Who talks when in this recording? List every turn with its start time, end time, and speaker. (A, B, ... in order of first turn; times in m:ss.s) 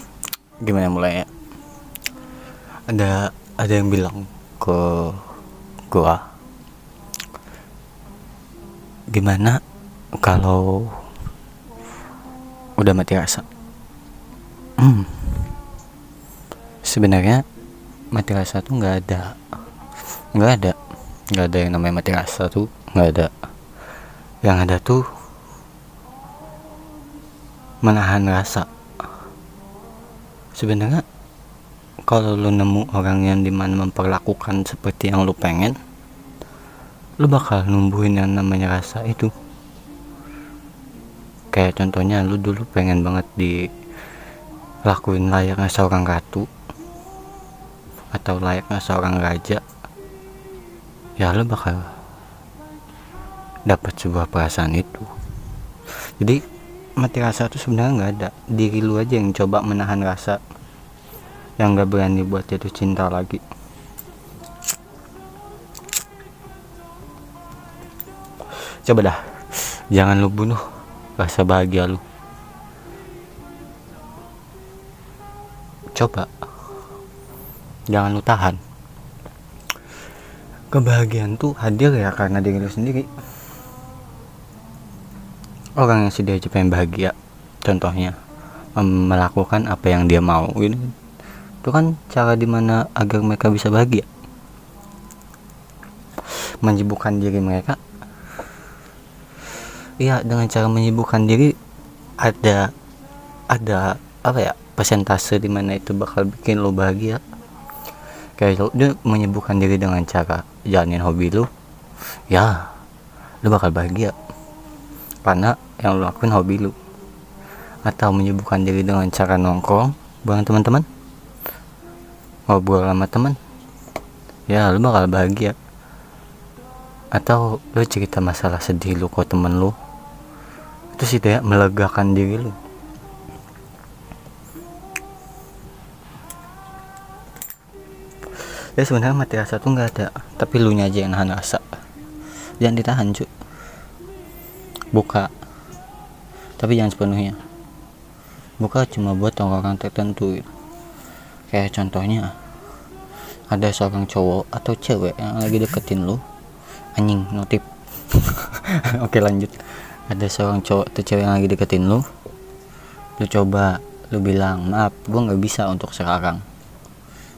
0:00.6-0:01.3 A
0:02.9-0:05.3 A
0:05.9-0:06.2 A
0:09.1-0:09.6 A
0:10.2-0:11.0 A
0:12.8-0:13.4 A
0:14.8-0:15.3 A
0:16.8-0:17.4 A
0:18.1-0:19.4 A
0:20.3-0:20.8 A
0:21.3-0:23.3 A
0:24.4-0:25.1 A
0:27.8-0:28.7 A
0:30.6-0:31.0 A
0:32.1-0:35.8 A
0:37.2-0:39.3 A
0:41.5-0:43.7 A
0:44.8-0:46.5 A
0:48.1-0:49.6 A
0:51.2-0:51.9 A
0:53.7-0:55.1 A
0:57.0-1:00.4 A
1:01.6-1:03.4 A
1:08.7-1:10.6 A
1:11.2-1:12.0 A
1:15.9-1:16.3 A
1:17.9-1:18.6 A
1:20.7-1:23.1 A
1:25.8-1:28.2 A
1:28.8-1:30.9 A
1:31.6-1:34.1 A
1:36.6-1:37.8 A
1:40.0-1:41.6 A
1:42.2-1:42.7 A
1:43.5-1:47.2 A
1:48.4-1:51.5 A
1:52.3-1:52.7 A
1:53.4-1:54.2 A
1:55.2-1:56.8 A
1:57.8-2:00.9 A
2:02.5-2:03.4 A
2:04.5-2:05.6 A
2:07.1-2:09.8 A
2:10.9-2:12.6 A
2:18.4-2:21.6 A
2:22.6-2:23.3 A
2:24.9-2:25.3 A
2:26.6-2:27.4 A
2:28.6-2:30.5 A
2:31.5-2:32.3 A
2:33.5-2:36.2 A
2:36.9-2:42.1 A
2:43.2-2:46.4 A